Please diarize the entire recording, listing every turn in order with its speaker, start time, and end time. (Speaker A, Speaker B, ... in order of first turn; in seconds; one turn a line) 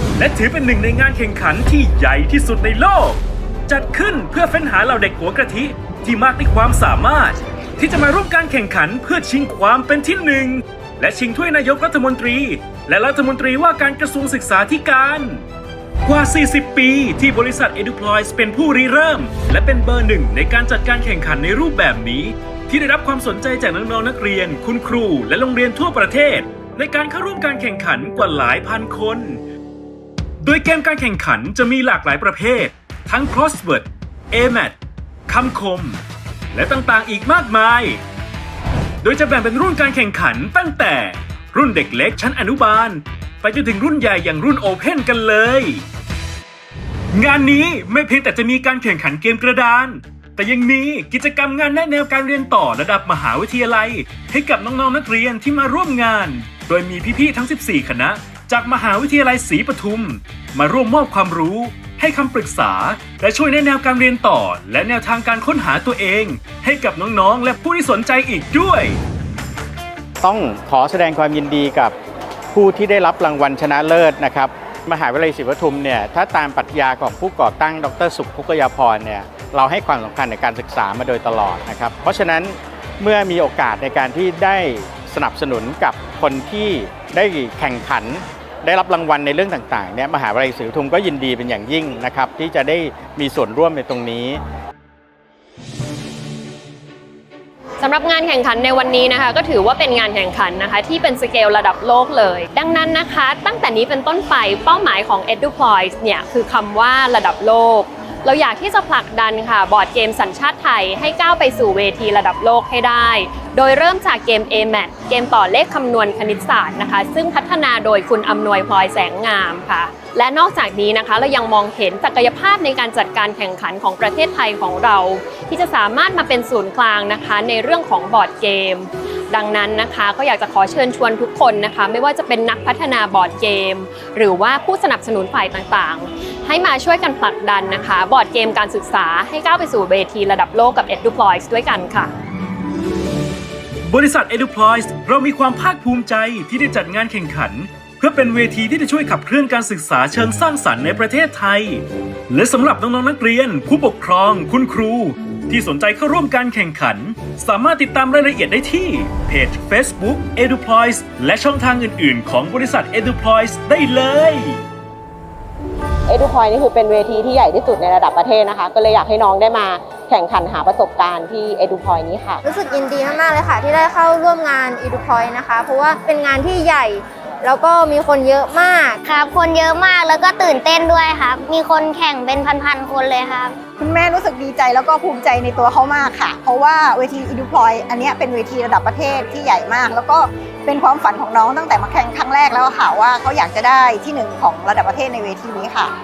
Speaker A: 0.2-15.4
Speaker A: 16.1-29.4
Speaker A: 30.4-38.0
Speaker A: 39.0-45.9
Speaker A: 47.1-69.0
Speaker B: 70.2-72.0
Speaker B: 72.5-94.4
Speaker C: 97.8-142.1
Speaker A: 143.9-164.6
Speaker D: 166.1-172.4
Speaker E: 172.4-179.0
Speaker F: 179.1-183.6
Speaker G: 183.8-195.9